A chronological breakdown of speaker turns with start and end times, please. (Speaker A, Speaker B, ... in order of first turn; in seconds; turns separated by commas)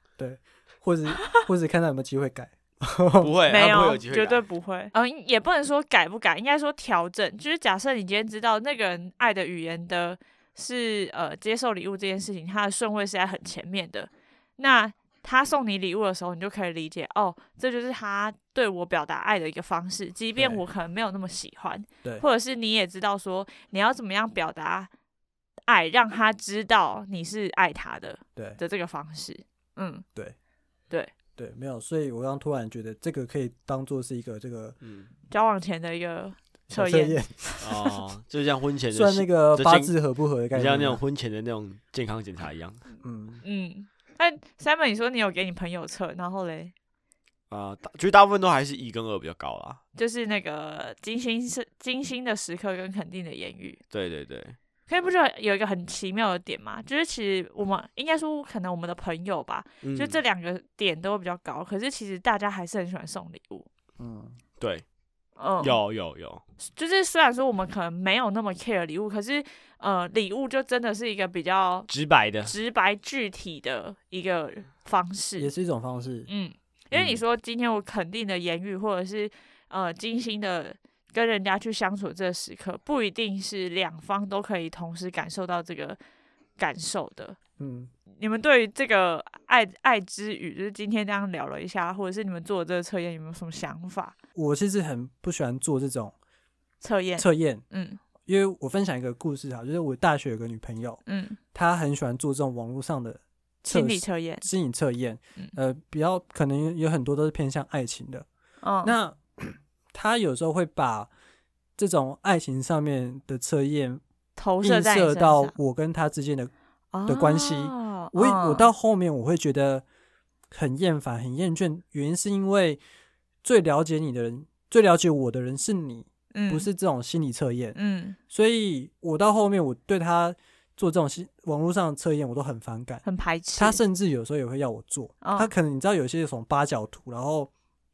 Speaker A: 0.2-3.8, Speaker B: 3.2-4.4, Speaker C: 3.5-24.9, Speaker A: 20.4-20.6, Speaker C: 25.7-30.0, Speaker A: 31.4-34.8, Speaker B: 34.8-35.1, Speaker C: 35.3-37.9, Speaker A: 36.7-37.4, Speaker B: 37.6-39.9, Speaker A: 38.9-41.0, Speaker B: 40.5-42.8, Speaker A: 43.0-43.4, Speaker C: 43.4-46.7, Speaker B: 47.5-49.8, Speaker C: 50.0-53.8, Speaker B: 53.9-54.6, Speaker C: 54.9-63.6, Speaker B: 59.8-60.2, Speaker A: 64.0-64.4, Speaker B: 64.6-64.8, Speaker C: 65.4-65.8, Speaker B: 65.6-66.4, Speaker C: 66.8-71.9, Speaker B: 71.9-72.5, Speaker C: 72.4-75.5, Speaker A: 75.4-76.3, Speaker C: 76.3-86.0, Speaker B: 76.9-77.2, Speaker C: 86.6-87.3, Speaker A: 87.6-87.9, Speaker C: 88.2-94.1, Speaker A: 94.3-96.1, Speaker C: 96.8-98.0, Speaker A: 97.2-97.6, Speaker A: 98.2-101.0, Speaker C: 101.1-101.4, Speaker A: 101.5-108.3, Speaker C: 103.6-104.4, Speaker C: 108.6-108.9, Speaker A: 108.8-111.1, Speaker A: 111.8-114.0, Speaker C: 114.3-115.5, Speaker A: 114.6-116.5, Speaker C: 116.9-118.7, Speaker A: 117.0-119.8, Speaker A: 120.5-122.8, Speaker A: 123.4-127.8, Speaker C: 126.3-126.7, Speaker C: 127.7-128.2, Speaker A: 128.3-133.0, Speaker C: 133.0-133.8, Speaker A: 133.6-137.5, Speaker C: 135.2-135.5